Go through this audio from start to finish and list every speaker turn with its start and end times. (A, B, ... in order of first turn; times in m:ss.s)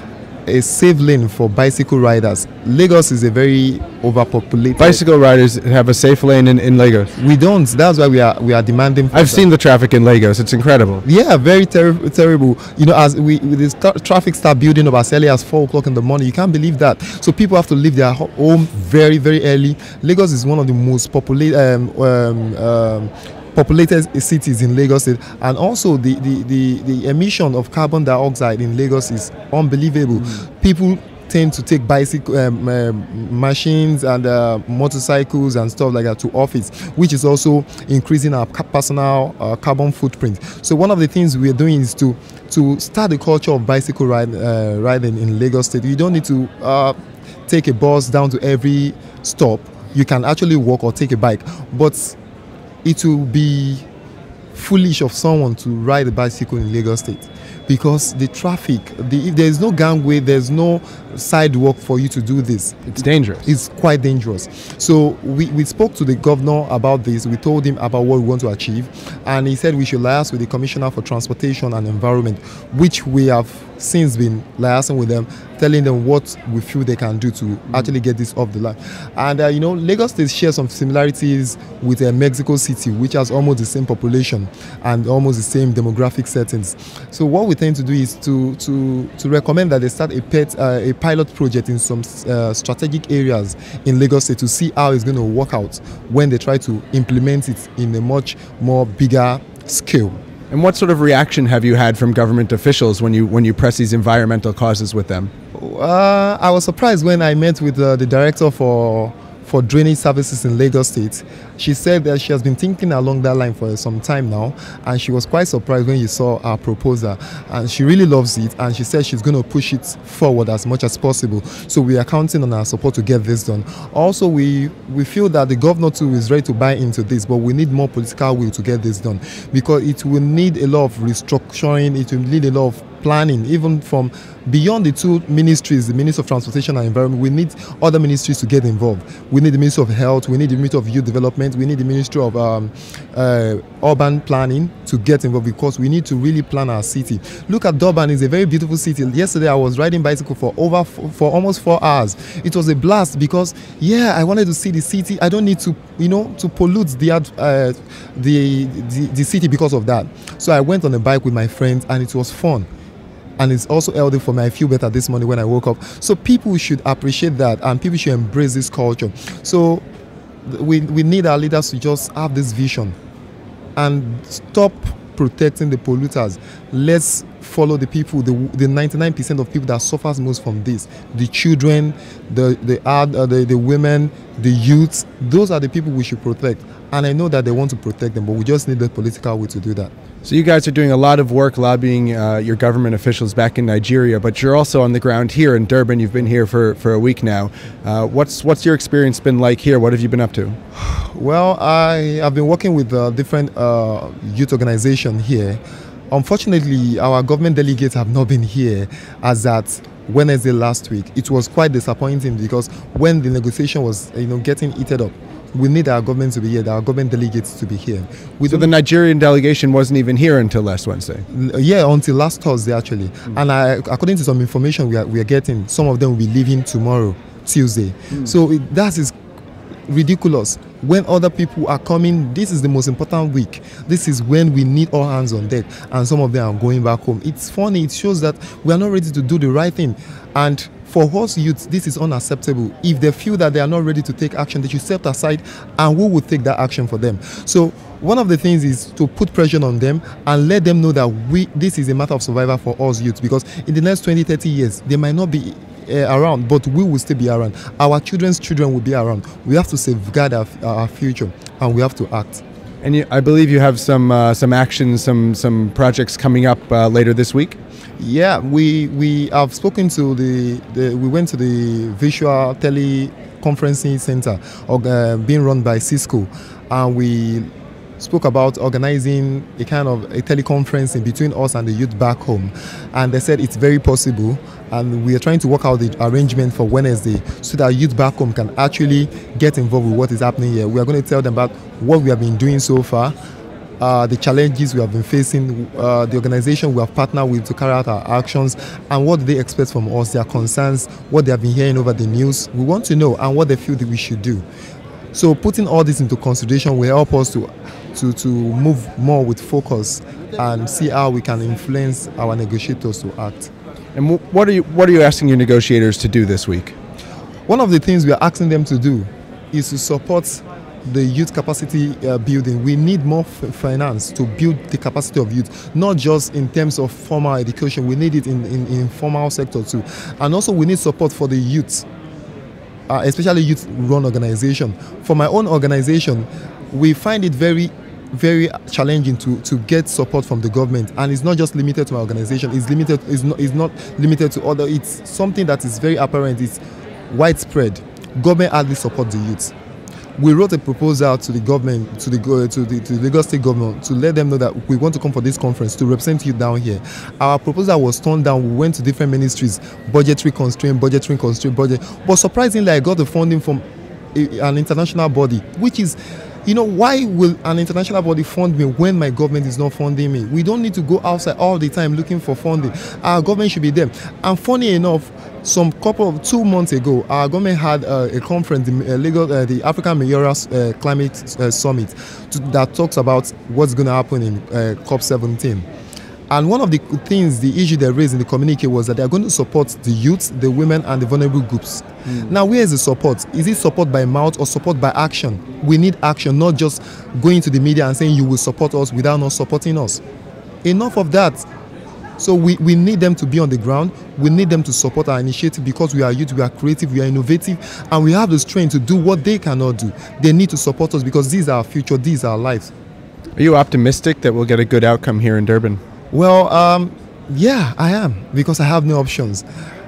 0:00.5-0:05.0 A
0:04.8-0:07.2 B
0:07.2-0:09.5 A
0:09.1-0:11.0 B
0:11.0-0:47.0 A
0:47.5-0:52.2 A
0:52.8-0:53.8 A
0:54.5-1:02.9 A
1:02.9-1:03.5 B
1:03.4-1:40.2 A
1:40.5-1:45.3 B
1:45.6-2:42.7 A
2:43.4-2:49.8 A
2:50.5-2:53.0 A
2:53.8-3:09.9 A
3:10.2-3:20.6 B
3:20.8-3:38.7 A
3:38.5-3:41.2 B
3:41.3-3:49.1 A
3:49.9-4:22.4 A
4:22.8-4:27.6 B
4:28.0-4:37.5 A
4:38.0-4:53.2 A
4:53.8-5:04.4 A
5:05.1-5:13.5 A
5:14.0-5:16.8 B
5:17.5-5:31.8 A
5:32.9-5:49.5 A
5:50.2-6:25.7 A
6:26.3-6:40.0 A
6:32.1-6:32.3 B
6:40.6-6:41.5 A
6:42.2-6:52.7 A
6:53.4-6:55.8 B
6:56.1-6:59.4 A